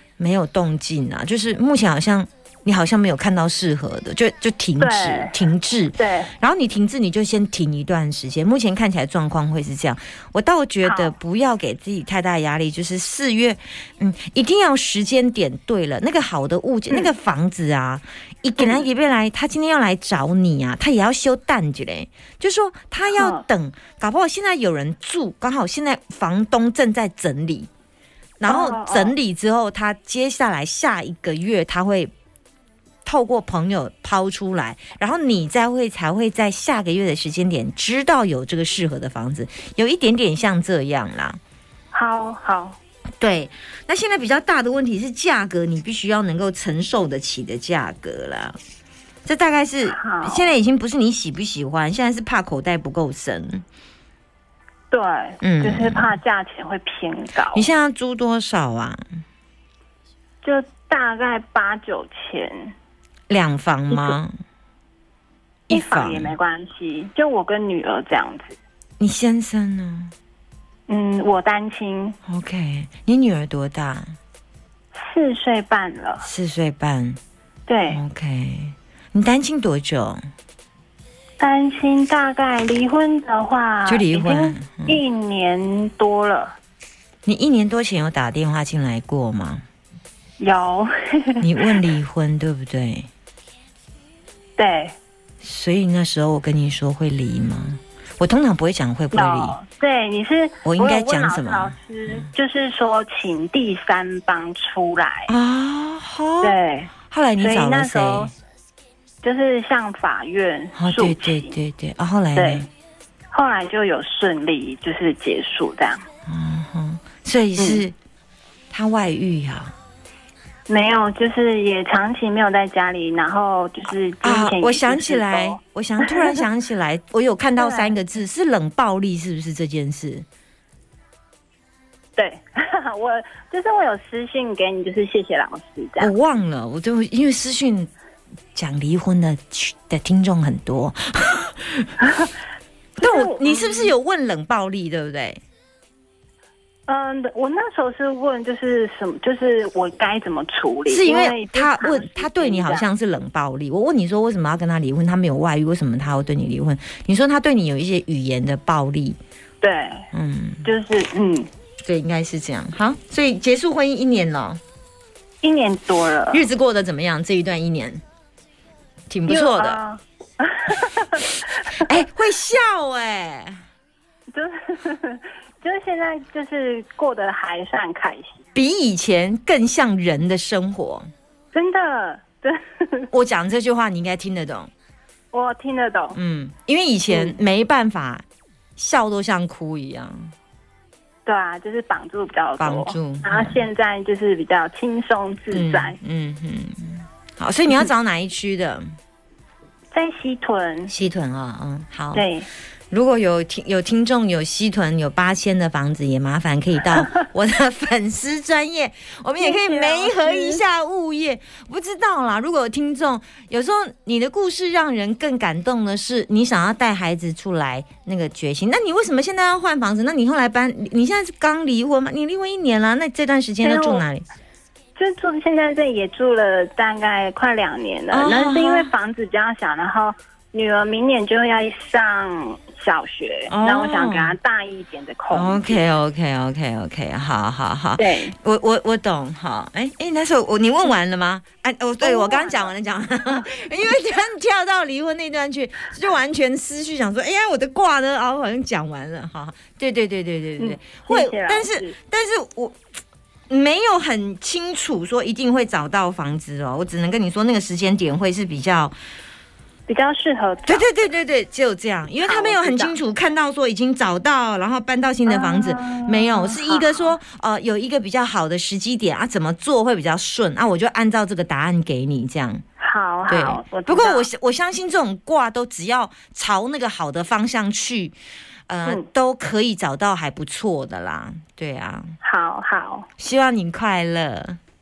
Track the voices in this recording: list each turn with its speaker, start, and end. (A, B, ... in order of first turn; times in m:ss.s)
0:00.2-0:27.7 A
0:04.8-0:05.4 B
0:06.0-0:06.3 B
0:10.8-0:11.2 B
0:23.1-0:23.4 B
0:28.4-0:32.1 A
0:28.4-0:29.1 B
0:33.0-0:41.4 A
0:41.9-0:42.8 B
0:43.2-0:48.6 A
0:49.2-0:53.6 A
0:49.8-0:50.5 B
0:54.9-0:57.7 B
0:55.4-0:56.2 A
0:57.5-0:59.0 A
1:00.4-1:02.7 B
1:03.3-1:04.3 A
1:05.7-1:06.3 A
1:05.7-1:08.6 B
1:09.0-1:10.1 A
1:10.9-1:12.2 B
1:12.2-1:14.1 A
1:14.9-1:16.2 B
1:16.2-1:17.2 A
1:17.7-1:18.0 B
1:17.9-1:20.2 A
1:21.4-1:26.6 B
1:23.8-1:25.0 A
1:27.2-1:29.6 A
1:30.4-1:31.4 B
1:31.4-1:33.1 A
1:34.6-1:34.9 B
1:35.4-1:39.6 A
1:39.1-1:45.3 B
1:40.6-1:42.3 A
1:45.3-1:48.3 A
1:46.4-1:48.3 B
1:49.2-1:51.5 B
1:50.7-1:52.7 A
1:52.3-1:52.7 B
1:53.3-1:56.0 B
1:56.2-1:58.0 A
1:57.6-1:57.8 B
1:58.7-1:59.7 A
2:00.7-2:06.3 B
2:04.2-2:10.2 A
2:07.6-2:07.9 B
2:12.2-2:16.1 B
2:16.0-2:17.9 A
2:18.5-2:21.9 A
2:23.0-2:23.9 B
2:23.0-2:25.4 A
2:26.9-2:32.9 B
2:30.9-2:39.2 A
2:39.6-2:40.0 B
2:40.1-2:40.7 A
2:40.6-2:41.5 B
2:41.8-2:44.6 A
2:45.4-2:46.4 B
2:46.3-2:48.0 A
2:49.1-2:49.8 A
2:49.3-2:51.8 B
2:51.7-2:53.6 A
2:54.3-2:58.4 B
2:58.5-3:01.1 A
3:01.5-3:03.1 B
3:03.1-3:04.7 A
3:05.3-3:06.2 B
3:06.1-3:08.2 A
3:07.1-3:07.4 B
3:08.8-3:10.3 A
3:11.2-3:16.0 B
3:12.6-3:13.6 A
3:15.5-3:18.8 A
3:19.9-3:20.9 B
3:20.9-3:22.2 A
3:22.1-3:22.5 B
3:22.9-3:44.2 A
3:29.4-3:30.6 B
3:43.6-3:44.0 B
3:45.0-3:55.8 B
3:48.1-3:48.9 A
3:53.5-3:54.4 A
3:55.3-4:12.8 A
3:58.0-3:58.3 B
4:02.0-4:02.7 B
4:10.6-4:11.9 B
4:13.5-4:18.9 A
4:19.9-4:20.9 B
4:20.6-4:32.6 A
4:22.2-4:23.0 B
4:25.2-4:27.2 B
4:32.8-4:34.3 B
4:33.3-4:38.2 A
4:38.7-4:42.2 A
4:42.2-4:43.1 B
4:43.2-4:44.6 A